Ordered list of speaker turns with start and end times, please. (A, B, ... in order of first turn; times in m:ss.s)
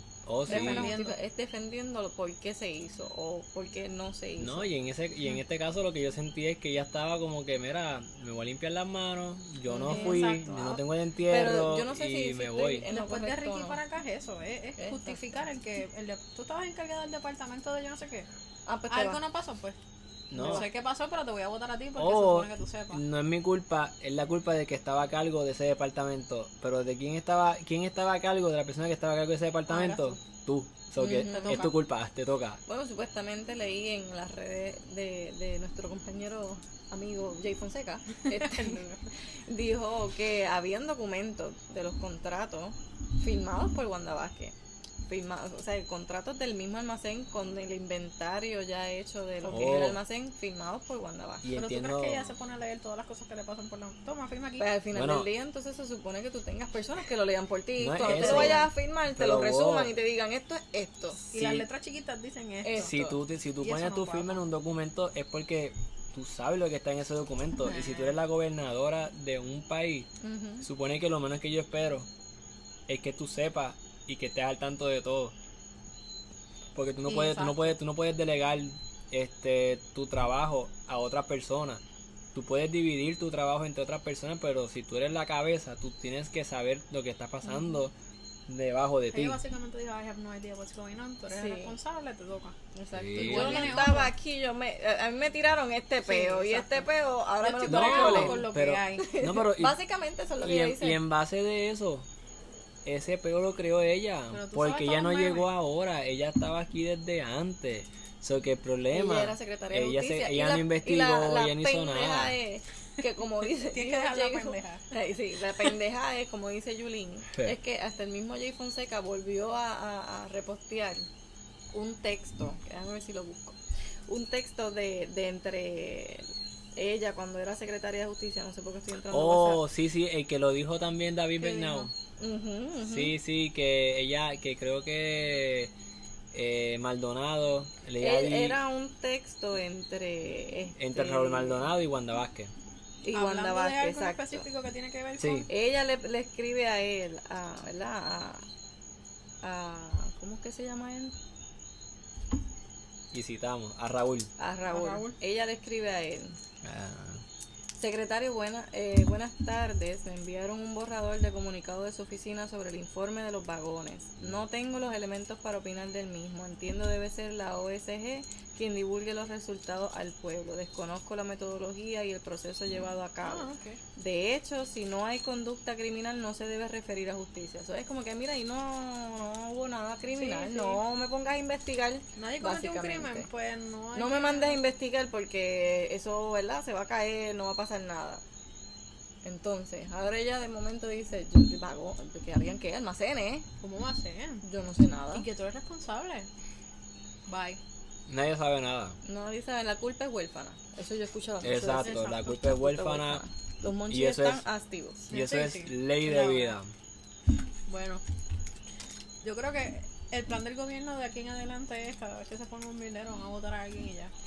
0:00.2-0:00.9 A
0:00.5-0:01.2 B
0:00.5-0:04.7 C
0:04.4-0:12.8 A
0:09.6-0:10.2 C
0:09.8-0:10.8 B
0:11.3-0:13.8 C
0:12.9-0:18.3 B
0:14.8-0:15.2 C
0:18.7-0:19.2 C
0:18.9-0:19.8 B
0:20.3-0:20.6 A
0:20.3-0:23.0 B
0:20.4-0:20.7 C
0:22.0-0:32.6 A
0:29.7-0:30.2 B
0:31.0-0:31.7 C
0:31.1-0:31.7 B
0:32.6-0:44.6 C
0:38.2-0:39.0 B
0:45.1-0:51.5 C
0:49.4-0:49.9 B
0:49.5-0:50.0 A
0:51.4-0:52.3 A
0:51.5-0:54.7 B
0:54.6-1:01.2 C
0:54.9-0:55.3 A
0:57.8-0:59.9 A
0:58.0-0:58.7 B
1:01.3-1:02.9 B
1:01.3-1:01.6 A
1:02.6-1:03.2 C
1:02.7-1:10.1 A
1:03.6-1:04.4 B
1:07.6-1:08.2 B
1:10.2-1:10.6 C
1:10.6-1:12.1 A
1:12.9-1:15.3 A
1:16.7-1:21.8 A
1:17.0-1:17.8 B
1:22.3-1:27.9 A
1:27.4-1:27.8 C
1:28.5-1:29.4 A
1:29.1-1:32.6 B
1:31.3-1:31.7 C
1:32.7-1:38.4 C
1:32.9-1:33.9 A
1:33.2-1:34.1 B
1:36.0-1:39.1 B
1:37.6-1:39.8 A
1:39.0-1:41.0 C
1:40.4-1:42.1 A
1:42.8-1:52.4 A
1:44.3-1:45.5 B
1:48.9-2:01.1 C
1:53.5-1:54.8 B
2:01.7-2:09.6 C
2:09.1-2:11.9 A
2:11.4-2:11.9 B
2:12.2-2:13.2 C
2:12.8-2:15.7 A
2:16.3-2:18.6 A
2:18.0-2:21.7 C
2:20.7-2:22.5 A
2:23.0-2:24.4 C
2:23.1-2:25.5 B
2:25.2-2:25.5 A
2:25.5-2:28.4 C
2:29.4-2:31.1 C
2:33.1-2:34.3 A
2:34.4-2:36.4 C
2:34.7-2:35.2 B
2:36.6-2:37.2 A
2:37.8-3:03.3 C
2:52.7-2:53.8 B
3:00.1-3:00.8 B
3:02.2-3:04.6 B
3:03.9-3:08.2 C
3:09.2-3:13.5 C
3:13.6-3:14.4 B
3:14.4-3:15.2 C
3:15.1-3:16.3 B
3:17.3-3:17.6 B
3:18.1-3:19.0 A
3:19.0-3:25.1 C
3:21.4-3:23.2 A
3:21.7-3:22.3 B
3:23.9-3:24.4 A
3:25.1-3:26.6 B
3:25.1-3:26.7 A
3:27.7-3:28.0 B
3:29.2-3:34.1 B